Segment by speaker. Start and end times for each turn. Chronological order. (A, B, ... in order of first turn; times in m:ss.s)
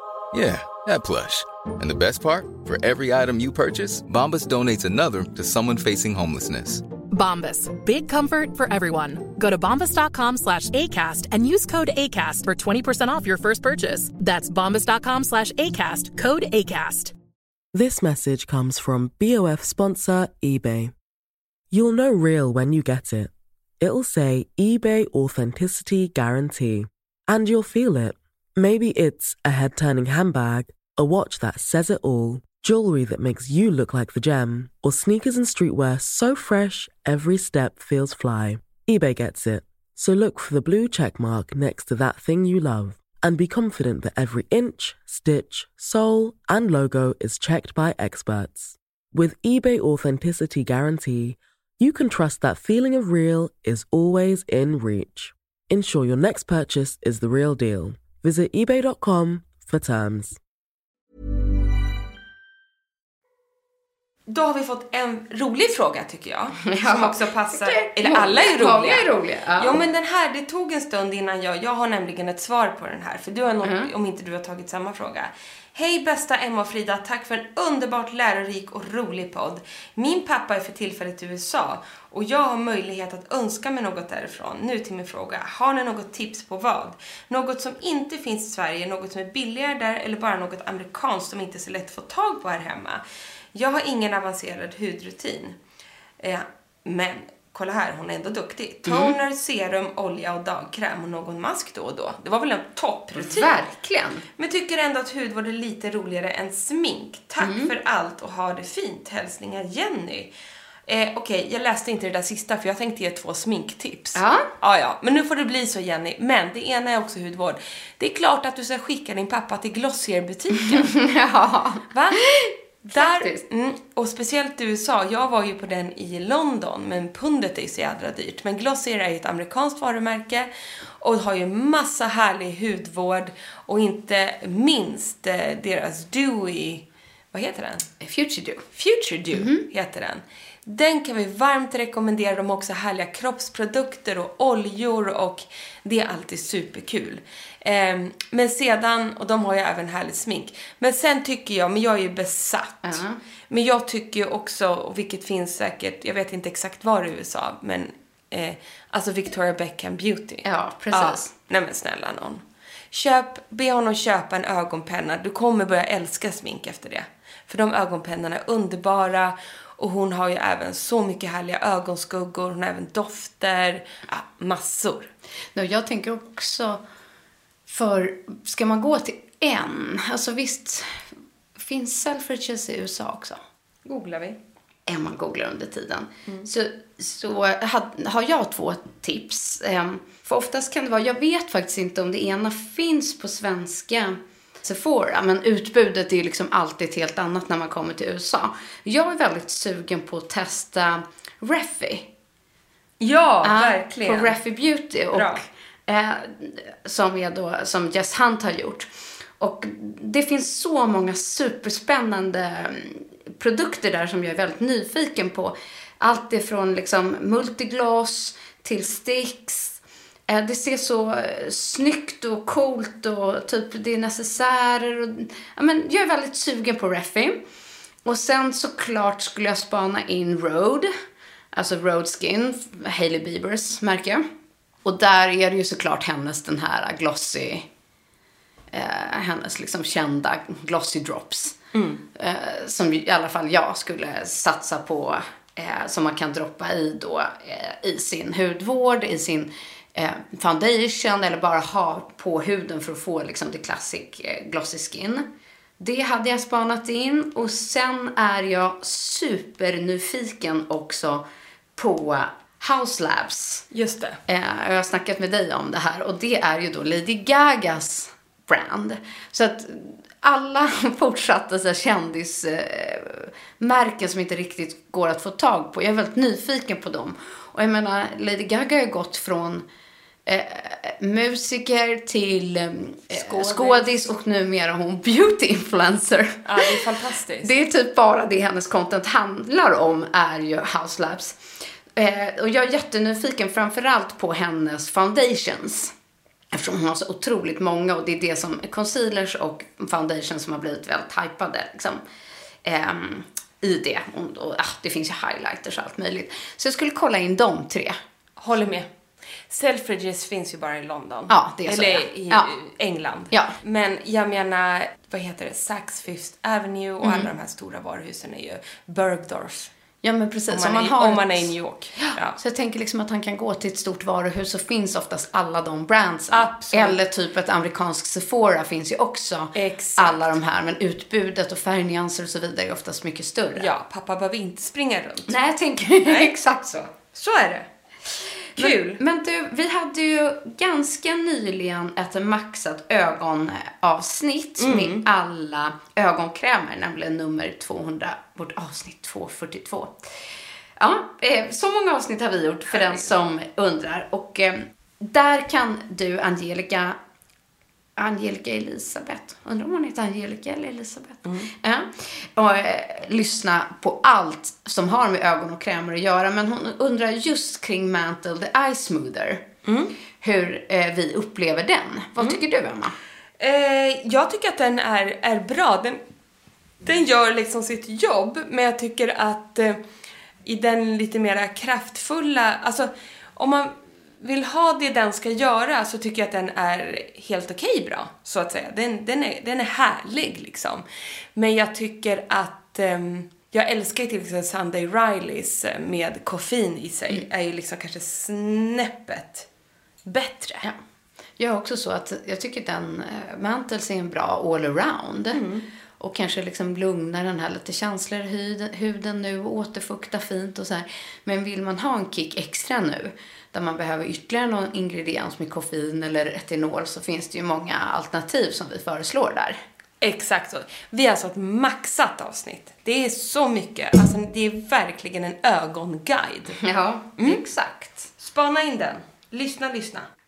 0:00.3-0:06.8 A
0:07.1-0:17.1 B
0:17.7-0:20.9 C
0:21.7-1:00.4 C
1:04.3-1:33.0 D
1:06.6-1:09.8 E
1:13.6-1:13.9 E
1:33.5-1:35.6 D
1:36.2-1:43.6 D
1:38.9-1:39.2 E
1:43.1-1:44.2 E
1:44.4-1:50.3 D
1:47.4-1:47.7 E
1:50.9-2:00.9 D
1:54.1-1:54.5 E
2:00.6-2:03.4 E
2:01.9-2:02.3 D
2:02.9-2:10.5 D
2:11.0-2:17.9 D
2:18.0-2:18.6 E
2:18.8-2:55.1 D
2:19.3-2:19.6 E
2:32.8-2:33.2 E
2:40.4-2:41.3 E
2:55.6-2:56.8 E
2:57.7-3:01.0 E
3:01.6-3:03.4 E
3:03.8-3:04.4 D
3:04.9-3:22.1 E
3:23.0-3:24.4 D
3:23.4-3:28.9 E
3:25.1-3:25.4 D
3:29.4-3:47.4 E
3:48.0-3:50.9 E
3:51.5-3:54.2 E
3:54.8-3:57.6 E
3:58.7-4:01.6 E
4:01.7-4:02.0 D
4:02.1-4:15.2 E
4:15.8-4:21.2 E
4:21.8-4:23.6 E
4:23.7-4:24.2 D
4:24.3-4:39.6 E
4:40.2-4:46.8 E
4:43.1-4:44.0 D
4:46.4-4:47.5 D
4:47.4-4:51.4 E
4:52.0-4:55.9 E
4:56.5-5:02.0 E
5:02.6-5:08.0 E
5:08.4-5:08.9 D
5:09.5-5:19.7 D
5:11.3-5:12.5 E
5:17.0-5:17.3 E
5:20.0-5:33.7 E
5:20.5-5:22.4 D
5:26.3-5:27.0 D
5:29.6-5:30.4 D
5:33.6-5:35.4 D
5:35.3-5:36.9 E
5:36.0-5:36.3 D
5:36.9-5:37.7 D
5:38.6-5:39.0 D
5:38.6-5:49.9 E
5:44.6-5:45.0 D
5:50.8-5:57.0 E
5:52.7-5:53.1 D
5:58.0-6:09.4 E
6:09.6-6:09.9 D
6:10.2-6:13.0 E
6:13.4-6:16.0 D
6:16.8-6:19.8 D
6:20.4-6:30.8 D
6:31.4-6:39.5 D
6:40.0-6:40.7 D
6:41.4-6:45.4 E
6:45.3-6:45.6 D
6:46.0-6:59.6 E
7:00.0-7:06.6 D
7:06.6-7:08.1 E
7:07.2-7:07.4 D
7:08.2-7:10.1 D